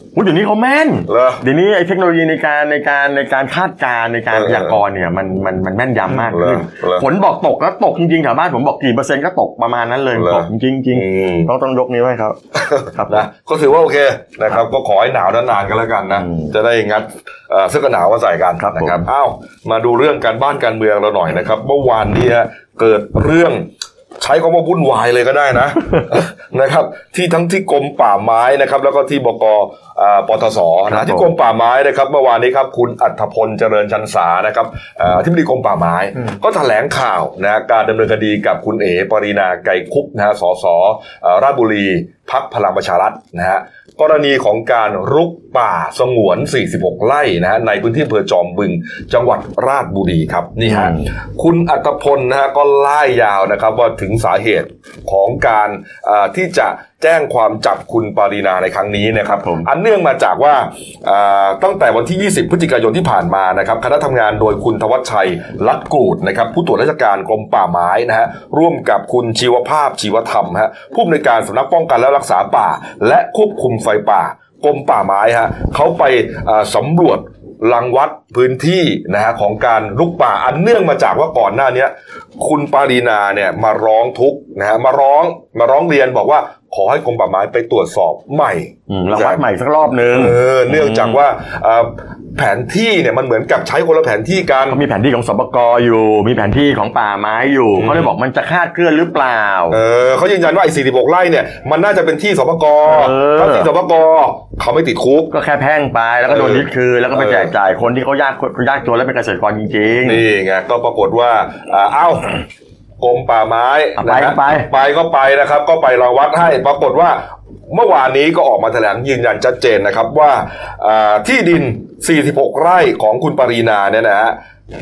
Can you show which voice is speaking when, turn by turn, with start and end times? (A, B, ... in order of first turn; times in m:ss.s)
0:00.1-0:12.4 A
0:01.1-0:01.4 B
0:04.3-0:04.8 B
0:06.1-0:07.1 B
0:10.1-0:11.5 B
0:12.6-0:23.7 B
0:12.9-0:13.2 A
0:16.1-0:16.5 A
0:18.6-0:19.0 A
0:24.2-1:29.4 B
0:30.9-0:31.2 A
0:50.6-0:51.0 A
0:59.3-0:59.7 A
1:28.9-1:31.2 A
1:30.1-1:34.8 B
1:34.7-1:39.8 A
1:37.8-1:38.1 B
1:39.7-1:45.3 B
1:42.8-1:43.7 A
1:45.3-1:50.2 A
1:46.3-1:47.5 B
1:50.0-1:52.4 B
1:53.0-2:04.4 B
1:54.0-1:54.7 A